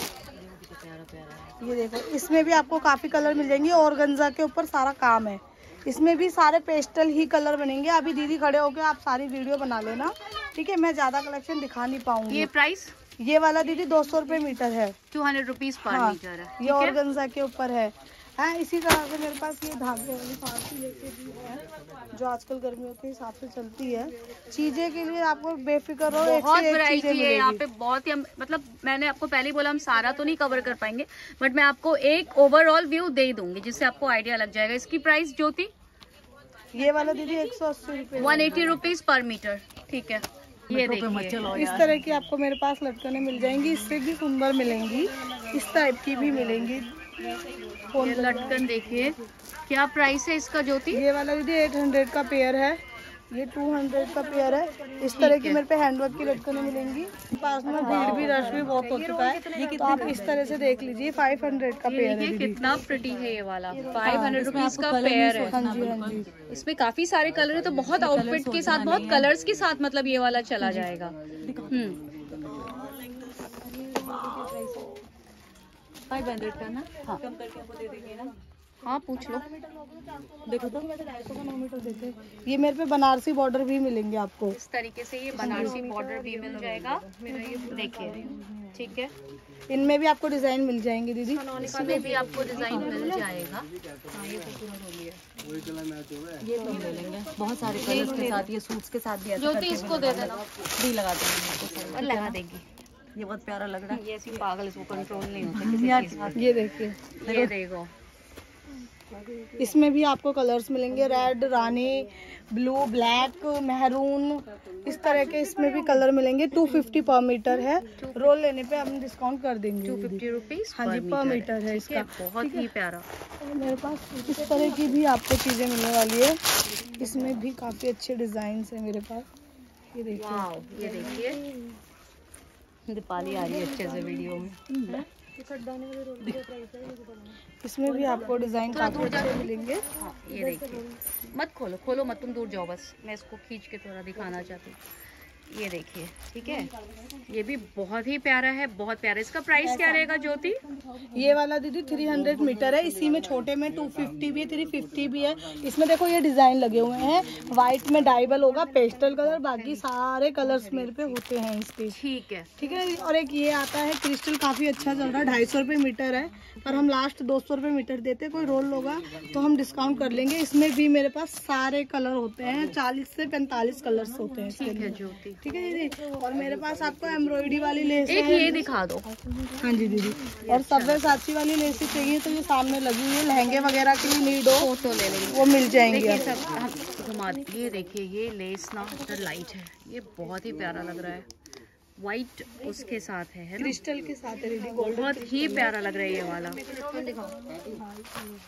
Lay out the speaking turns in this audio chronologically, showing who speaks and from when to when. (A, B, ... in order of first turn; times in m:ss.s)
0:00.3-0:01.6 A
0:01.6-0:12.5 B
0:12.3-0:13.0 C
0:13.2-0:15.0 B
0:15.1-0:17.0 C
0:15.8-0:27.6 B
0:26.2-0:35.7 C
0:36.7-0:38.8 B
0:38.2-0:41.5 C
0:40.7-0:42.2 A
0:41.4-0:47.3 B
0:47.9-0:48.7 B
0:48.0-0:51.0 C
0:50.9-1:02.6 B
0:55.1-0:55.6 C
0:57.7-1:00.5 A
0:57.8-0:58.6 C
1:01.8-1:05.6 C
1:03.8-1:06.3 A
1:04.0-1:04.5 B
1:05.4-1:06.3 B
1:06.5-1:11.2 C
1:07.9-1:09.3 A
1:10.6-1:15.0 A
1:11.7-1:12.0 C
1:12.4-1:14.6 B
1:16.1-1:18.3 A
1:17.2-1:17.6 B
1:18.8-1:19.4 C
1:19.2-1:24.6 B
1:20.5-1:21.3 A
1:24.5-1:27.0 C
1:25.4-1:28.3 A
1:25.4-1:25.8 B
1:27.3-1:28.7 B
1:27.7-1:28.2 C
1:28.7-1:29.1 C
1:29.7-1:32.2 B
1:31.5-1:33.2 A
1:31.6-1:33.7 C
1:34.1-1:35.2 A
1:36.4-1:42.4 A
1:37.7-1:38.5 C
1:38.0-1:38.3 B
1:39.4-1:40.4 C
1:41.9-1:42.6 C
1:43.2-1:44.0 A
1:43.9-1:46.4 C
1:45.4-1:46.6 A
1:46.4-1:47.1 B
1:47.2-1:47.9 C
1:47.2-1:47.5 A
1:49.1-1:49.6 A
1:49.6-2:00.2 B
1:58.0-1:58.4 C
1:59.8-2:03.0 C
2:00.8-2:02.7 B
2:03.4-2:06.4 B
2:06.8-2:07.1 A
2:07.0-2:09.3 B
2:09.9-2:11.8 B
2:10.1-2:11.4 C
2:12.9-2:15.0 C
2:13.2-2:15.0 A
2:15.4-2:16.0 B
2:16.2-2:17.1 A
2:17.6-2:19.9 B
2:18.7-2:19.4 C
2:20.0-2:24.8 C
2:25.5-2:26.7 C
2:27.3-2:30.6 C
2:29.8-2:30.1 B
2:31.1-2:42.0 B
2:41.9-2:42.5 C
2:42.6-2:58.7 B
2:54.5-2:55.4 C
2:58.1-2:59.1 C
2:59.6-3:04.7 B
3:00.4-3:01.2 C
3:04.5-3:11.3 C
3:05.3-3:06.4 B
3:12.0-3:13.8 C
3:13.6-3:15.7 B
3:14.8-3:16.6 C
3:16.7-3:18.2 B
3:16.8-3:17.1 A